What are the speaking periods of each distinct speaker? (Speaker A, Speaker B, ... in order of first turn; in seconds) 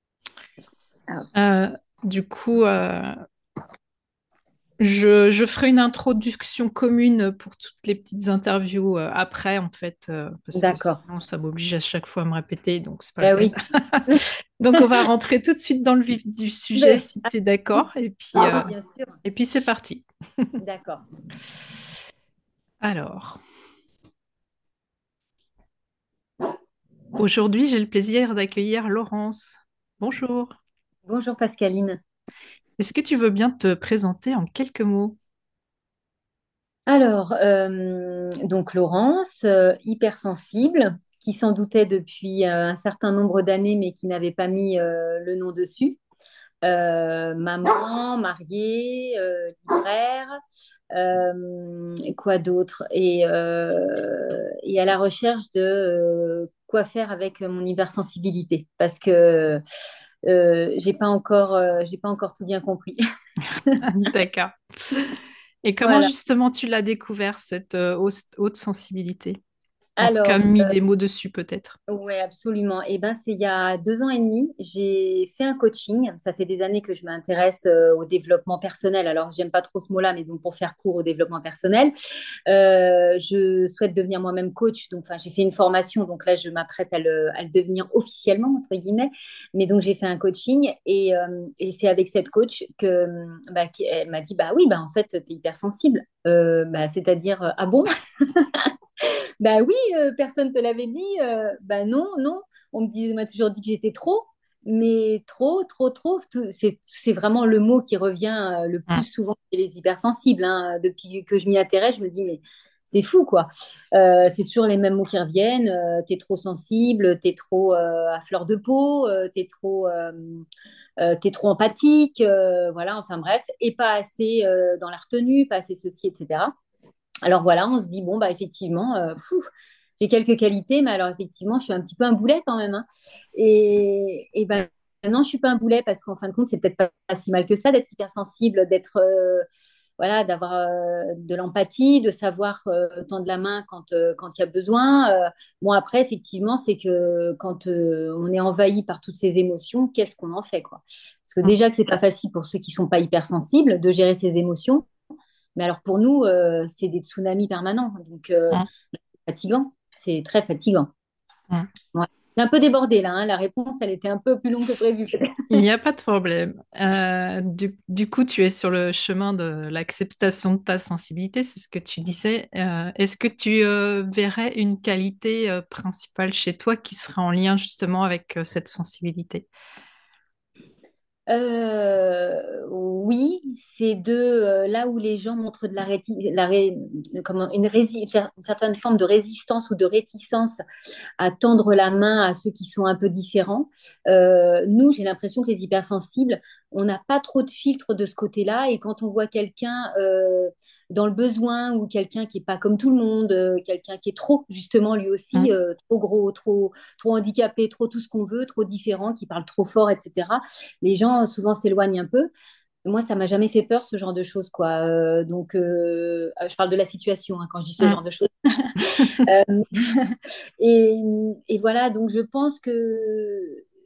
Speaker A: 1.4-3.1, 4.8-14.1, 14.6-18.7, 19.2-20.5, 22.8-23.4, 27.2-30.6, 32.8-35.2, 63.9-64.5, 65.6-69.4, 70.0-71.8, 165.5-179.5
Speaker B: 10.6-11.0, 13.2-13.5, 16.8-17.1, 18.4-19.1, 20.6-21.0, 31.1-32.0, 36.9-46.0, 46.6-50.4, 50.9-59.6, 60.3-63.0, 65.8-66.1, 70.0-70.8, 71.9-81.9, 82.5-98.7, 99.4-120.5, 121.0-126.5, 127.3-129.4, 130.0-139.5, 140.0-154.9, 155.6-158.6, 159.3-160.9, 161.9-165.6, 181.3-190.6, 191.2-212.3, 212.8-223.6